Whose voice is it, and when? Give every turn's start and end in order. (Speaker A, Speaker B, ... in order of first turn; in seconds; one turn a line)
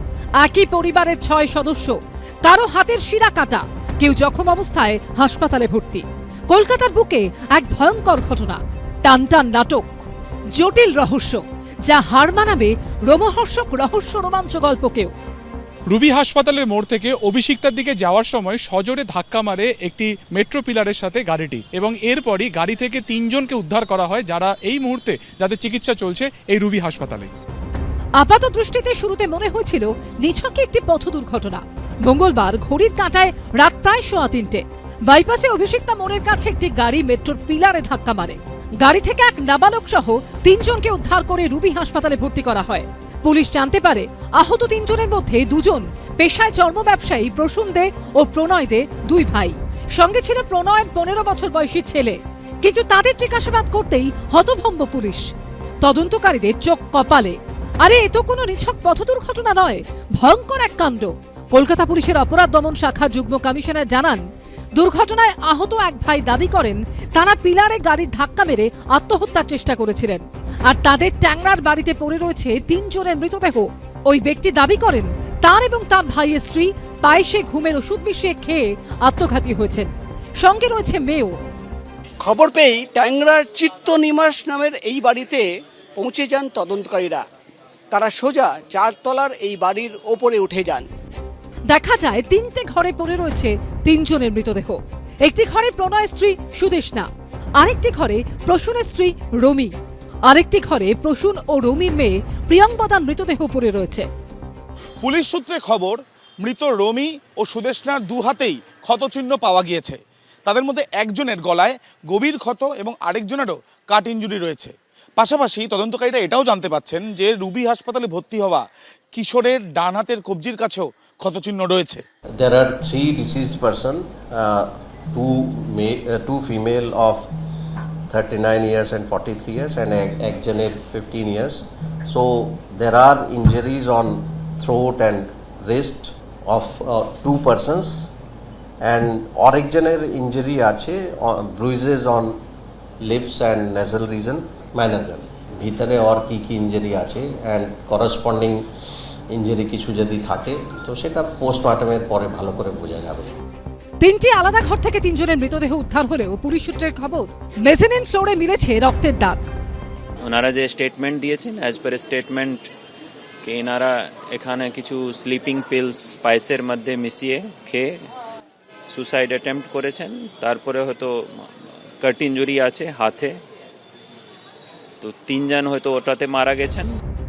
Speaker A: 0.4-15.1
Speaker B: 15.9-27.3
Speaker A: 28.2-55.2
Speaker A: 55.8-64.2
Speaker A: 64.8-81.4
Speaker C: 82.2-87.2
Speaker C: 87.9-90.9
Speaker A: 91.7-99.7
Speaker A: 100.2-104.1
Speaker D: 105.0-122.0
Speaker E: 122.4-127.3
Speaker E: 128.1-138.1
Speaker E: 138.8-142.4
Speaker E: 143.0-148.6
Speaker E: 149.3-153.3
Speaker A: 154.0-159.4
Speaker F: 160.2-162.7
Speaker F: 163.4-167.9
Speaker F: 168.9-171.4
Speaker F: 172.0-173.4
Speaker F: 175.0-177.0